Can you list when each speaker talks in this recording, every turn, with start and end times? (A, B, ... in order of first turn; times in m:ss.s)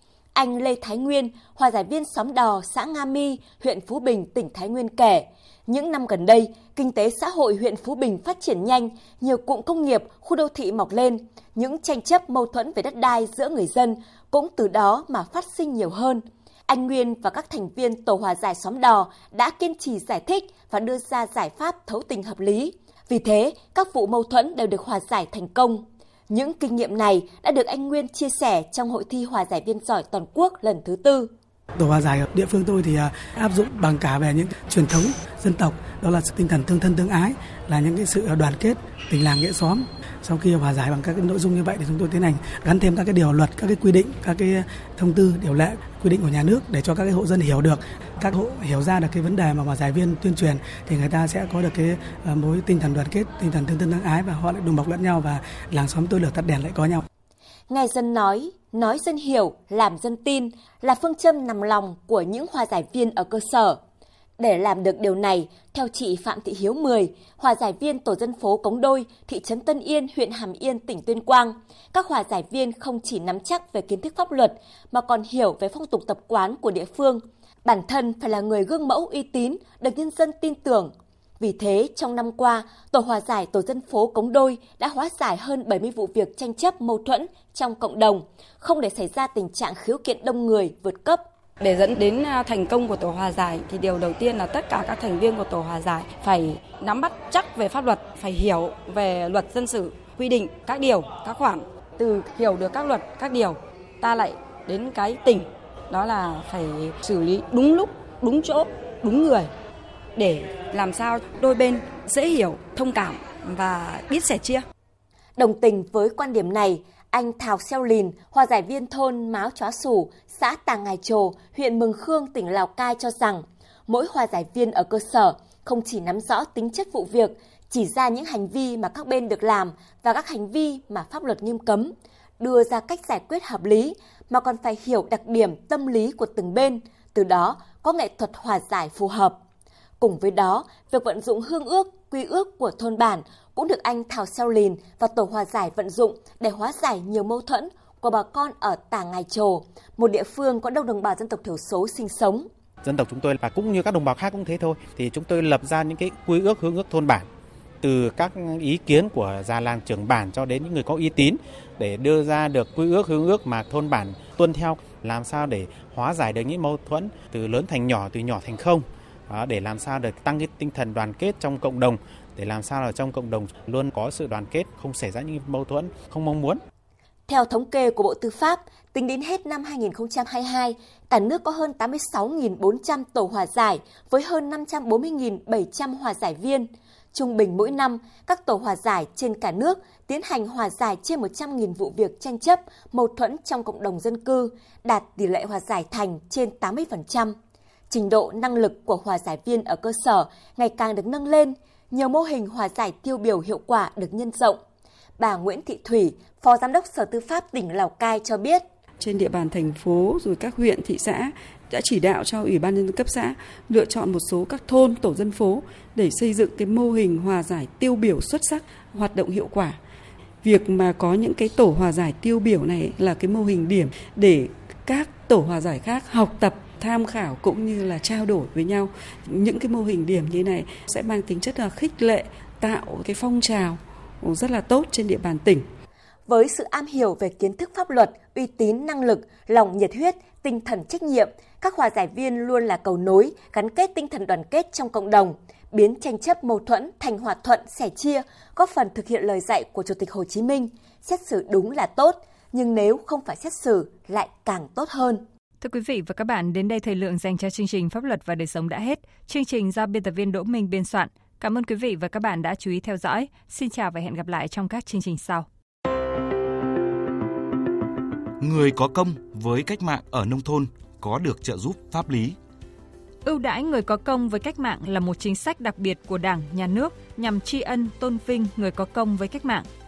0:00.3-0:31.3 A
0:31.8-0:57.0 B
0:57.7-1:03.8 A
1:04.4-1:31.2 A
1:31.6-1:49.5 C
1:50.2-1:54.6 C
1:55.4-2:19.4 A
2:20.0-2:32.4 A
2:32.8-2:37.3 D
2:37.8-2:56.6 D
2:57.3-3:17.3 A
3:17.9-3:24.6 A
3:25.2-3:28.6 A
3:29.0-3:39.8 E
3:40.4-3:55.6 E
3:56.3-4:15.2 A
4:15.6-4:25.4 F
4:28.4-4:32.4 G
4:33.2-4:39.6 F